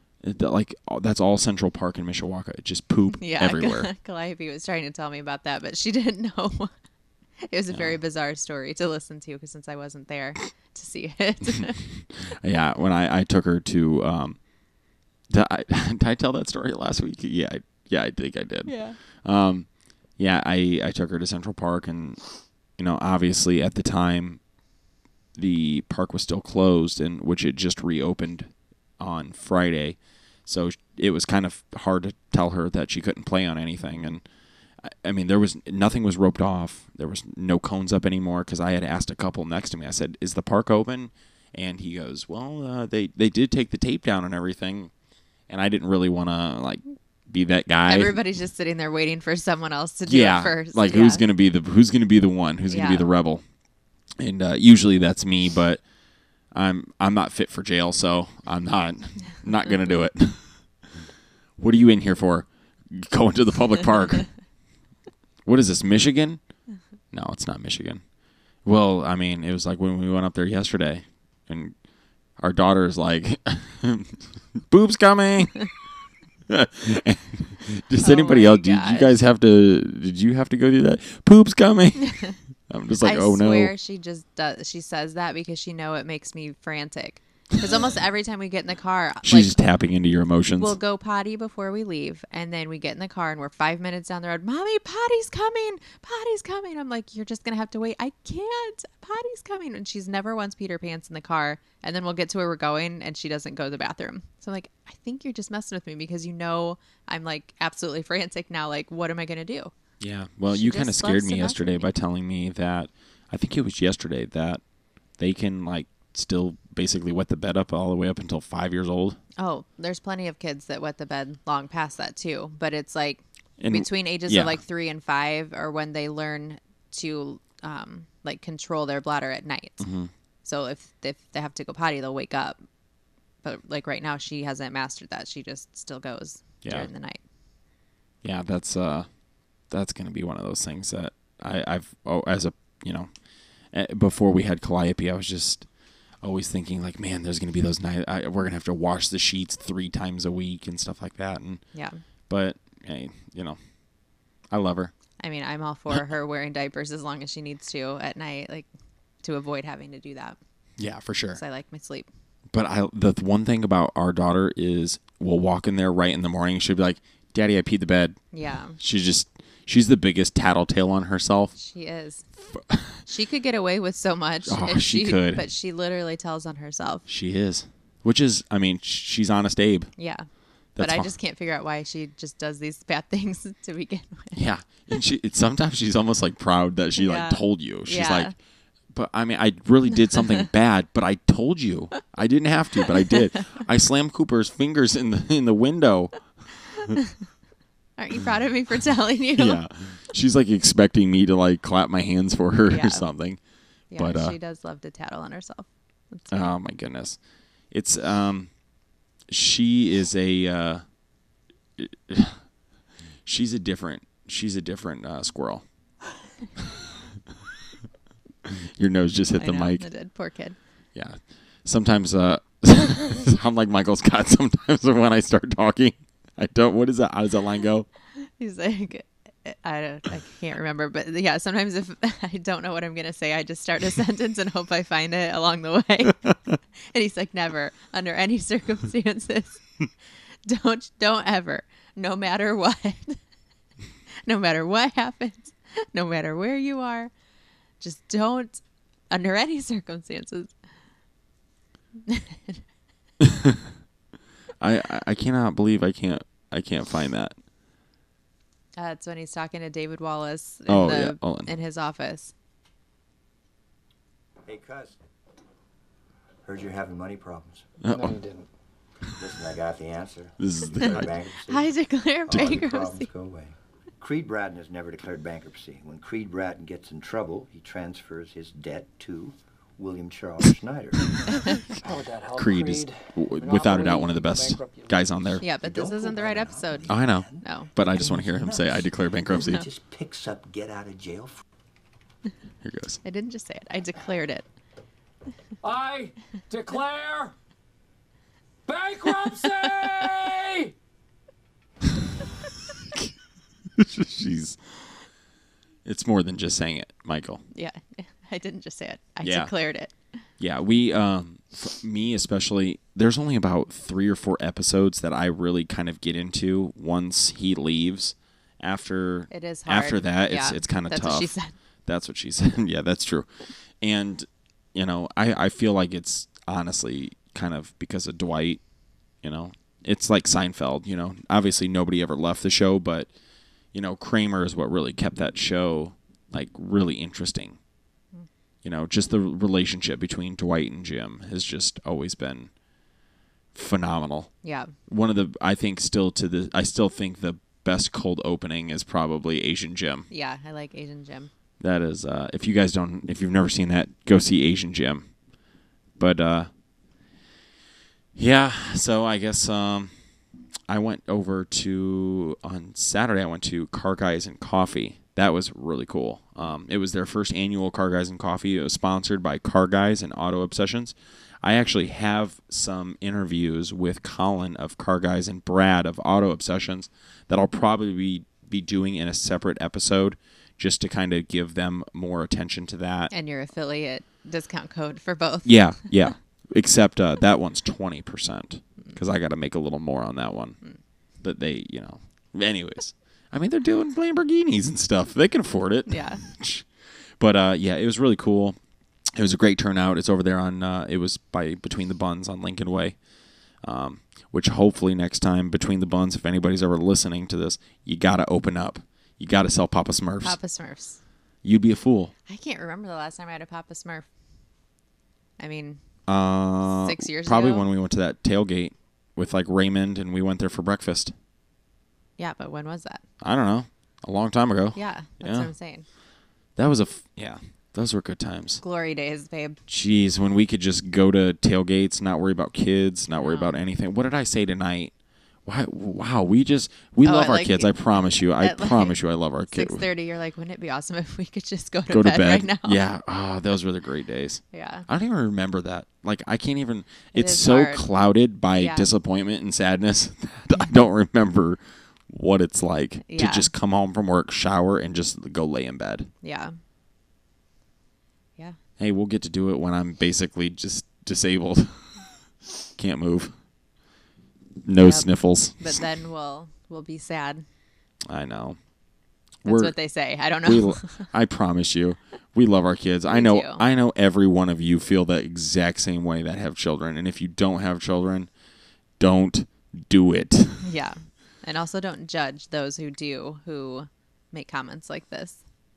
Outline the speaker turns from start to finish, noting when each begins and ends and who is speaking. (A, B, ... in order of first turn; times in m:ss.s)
0:00.2-0:03.9 A
0:03.1-0:06.7 B
0:07.5-0:11.8 B
0:07.7-0:08.0 A
0:12.1-0:14.4 A
0:15.3-0:19.7 A
0:18.6-0:19.0 B
0:20.2-0:22.2 A
0:22.8-0:24.4 A
0:25.4-0:34.2 A
0:34.8-0:44.9 A
0:45.5-0:48.2 A
0:47.9-0:51.2 B
0:50.1-0:53.4 A
0:52.7-0:53.0 B
0:54.2-0:55.8 A
0:56.5-1:00.4 A
1:01.6-1:04.3 A
1:05.4-1:06.4 A
1:07.1-1:08.0 A
1:08.6-1:11.7 A
1:12.4-1:15.7 A
1:16.5-1:23.7 A
1:18.0-1:19.1 B
1:23.0-1:29.6 B
1:29.2-1:30.8 A
1:30.6-1:49.7 B
1:50.0-1:54.6 A
1:50.5-1:51.9 B
1:55.2-1:59.2 A
1:59.4-2:09.8 B
2:03.6-2:04.6 A
2:09.8-2:10.1 A
2:10.4-2:12.6 B
2:13.4-2:17.2 B
2:18.2-2:19.1 A
2:19.7-2:23.1 A
2:23.7-2:25.6 A
2:26.2-2:31.6 A
2:31.7-2:32.0 B
2:32.3-2:33.6 A
2:34.5-2:34.9 A
2:35.2-2:38.7 B
2:39.2-2:40.4 B
2:40.8-2:41.4 A
2:41.3-2:42.1 B
2:42.5-2:48.2 A
2:48.3-2:48.8 B
2:48.8-2:51.5 A
2:51.6-2:52.2 B
2:52.5-2:53.0 A
2:53.0-2:57.0 B
2:54.4-2:55.4 A
2:57.1-2:59.9 A
3:00.0-3:00.2 B
3:00.8-3:01.1 A
3:00.8-3:04.4 B
3:04.4-3:08.3 A
3:07.0-3:08.3 B
3:08.9-3:16.2 A
3:18.0-3:19.6 B
3:19.4-3:23.4 A
3:22.7-3:23.0 B
3:23.9-3:26.5 B
3:24.0-3:24.4 A
3:26.3-3:27.2 A
3:27.7-3:28.5 A
3:29.3-3:30.8 A
3:31.8-3:32.4 A
3:33.2-3:35.6 A
3:38.4-3:39.8 A
3:39.4-3:40.6 B
3:40.9-3:47.8 A
3:48.2-3:56.3 B
3:56.9-3:59.6 B
4:00.4-4:03.2 B
4:04.2-4:07.1 B
4:07.8-4:10.5 B
4:12.1-4:12.6 B
4:13.2-4:13.7 A
4:14.6-4:17.3 A
4:18.8-4:22.3 B
4:20.7-4:21.5 A
4:24.4-4:25.0 C
4:26.4-4:27.7 C
4:27.8-4:28.2 A
4:27.9-4:28.4 D
4:28.0-4:28.4 E
4:29.1-4:31.7 C
4:30.4-4:31.1 A
4:31.5-4:33.1 B
4:32.2-4:41.7 C
4:32.3-4:32.6 A
4:41.8-4:44.9 D
4:42.3-4:45.4 A
4:43.6-4:44.1 E
4:45.4-4:47.7 B
4:45.6-4:51.4 C
4:46.9-4:49.6 A
4:52.6-4:53.0 A
4:53.0-4:54.4 B
4:55.6-4:57.3 E
4:58.7-5:00.7 E
5:03.8-5:04.6 A
5:05.8-5:07.4 A
5:07.5-5:09.9 B
5:09.2-5:09.5 A
5:10.4-5:21.3 A
5:19.3-5:21.5 B
5:21.8-5:23.3 A
5:23.8-5:28.6 A
5:29.2-5:33.1 A
5:33.7-5:37.6 A
5:38.6-5:42.5 A
5:43.5-5:44.3 A
5:44.4-5:44.7 B
5:44.9-5:50.1 A
5:50.1-5:51.3 B
5:51.6-5:55.1 A
5:56.0-5:56.5 A
5:58.2-5:59.9 A
6:00.7-6:23.1 A
6:23.1-6:25.7 B
6:25.4-6:30.6 A
6:31.2-6:36.7 A
6:35.9-6:36.2 B
6:37.2-6:38.6 A
6:39.1-6:43.0 A
6:43.6-6:50.4 A
6:50.2-6:51.0 B
6:51.4-6:52.1 A
6:52.3-6:54.0 B
6:55.4-6:55.8 B
6:56.1-7:01.1 A
6:56.7-6:57.7 B
7:02.2-7:03.0 B
7:03.2-7:05.5 A
7:04.7-7:05.8 B
7:06.6-7:08.6 A
7:08.6-7:09.6 B
7:09.7-7:14.9 A
7:13.2-7:13.5 B
7:15.4-7:19.8 A
7:17.0-7:19.0 B
7:19.5-7:22.8 B
7:21.9-7:36.1 A
7:24.5-7:24.9 B
7:27.1-7:27.8 B
7:28.5-7:28.9 B
7:33.0-7:33.5 B
7:36.2-7:36.5 B
7:38.8-7:41.9 A
7:42.8-7:43.3 A
7:44.6-7:45.8 A
7:44.8-7:47.4 B
7:48.1-7:48.6 A
7:49.4-7:49.7 A
7:49.4-7:51.0 B
7:50.4-7:58.3 A
7:53.1-7:53.6 B
7:59.0-8:00.7 A
8:00.6-8:05.4 B